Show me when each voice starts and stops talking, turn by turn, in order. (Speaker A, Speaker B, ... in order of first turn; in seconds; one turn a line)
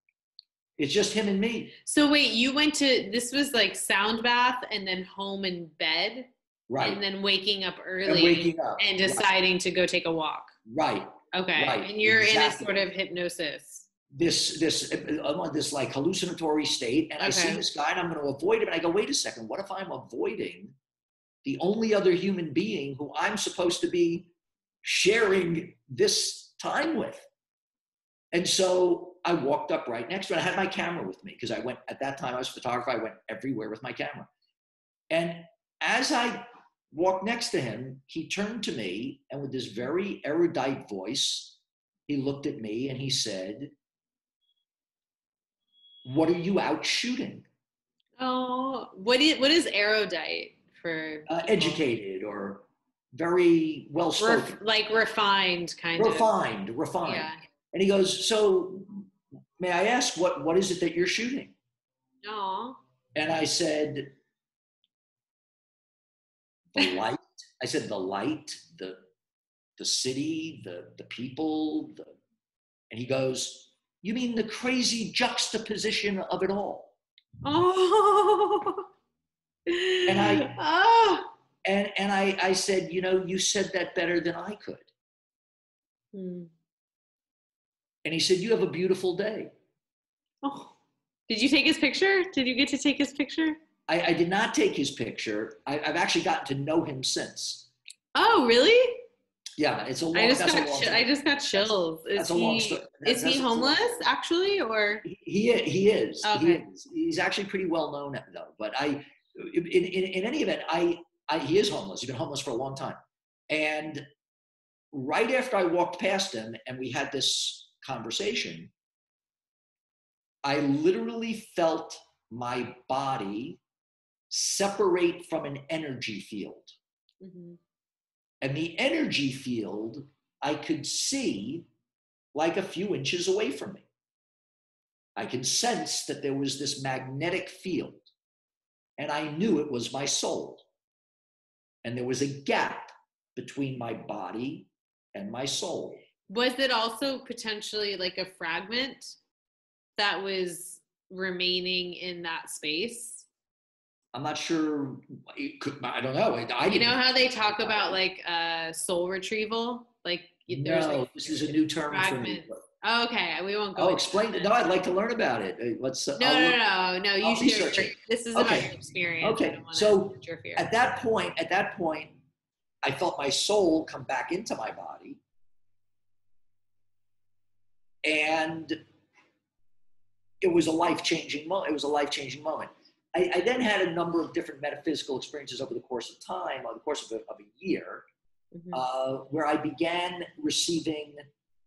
Speaker A: 0.8-1.8
Speaker B: 1.9-10.6
Speaker A: 6.7-7.0
Speaker A: 8.0-9.3
Speaker A: 10.7-12.8
Speaker B: 11.3-13.8
Speaker A: 14.1-20.8
Speaker B: 17.2-17.6
Speaker A: 21.4-24.3
Speaker A: 24.8-27.2
Speaker A: 28.3-34.3
Speaker A: 35.1-41.6
Speaker A: 42.1-43.7
Speaker A: 46.0-47.5
Speaker B: 48.2-51.3
Speaker A: 51.3-54.6
Speaker B: 54.2-56.3
Speaker A: 56.0-61.5
Speaker B: 57.0-57.4
Speaker B: 62.2-62.8
Speaker A: 63.1-64.1
Speaker A: 66.8-69.0
Speaker A: 69.8-72.1
Speaker A: 72.9-76.9
Speaker B: 77.4-78.9
Speaker B: 79.7-81.3
Speaker A: 80.1-80.6
Speaker A: 81.7-84.9
Speaker B: 86.1-86.5
Speaker A: 88.0-89.5
Speaker B: 90.4-90.7
Speaker B: 91.3-93.6
Speaker A: 93.9-97.7
Speaker B: 98.2-99.0
Speaker A: 99.6-103.9
Speaker B: 100.1-105.0
Speaker A: 105.0-114.0
Speaker B: 106.2-106.6
Speaker A: 114.9-118.7
Speaker A: 120.5-123.6
Speaker A: 124.3-126.8
Speaker B: 127.2-127.6
Speaker A: 128.4-131.7
Speaker A: 132.3-133.8
Speaker A: 135.2-138.1
Speaker A: 139.0-140.6
Speaker A: 141.8-146.0
Speaker B: 146.3-149.2
Speaker B: 150.0-153.3
Speaker A: 154.1-158.0
Speaker B: 156.7-164.5
Speaker A: 160.5-162.6
Speaker A: 163.8-166.6
Speaker B: 166.2-170.7
Speaker A: 167.2-172.2
Speaker A: 172.8-175.2
Speaker A: 178.0-178.8
Speaker A: 180.4-188.1
Speaker B: 188.5-188.8
Speaker A: 188.7-191.2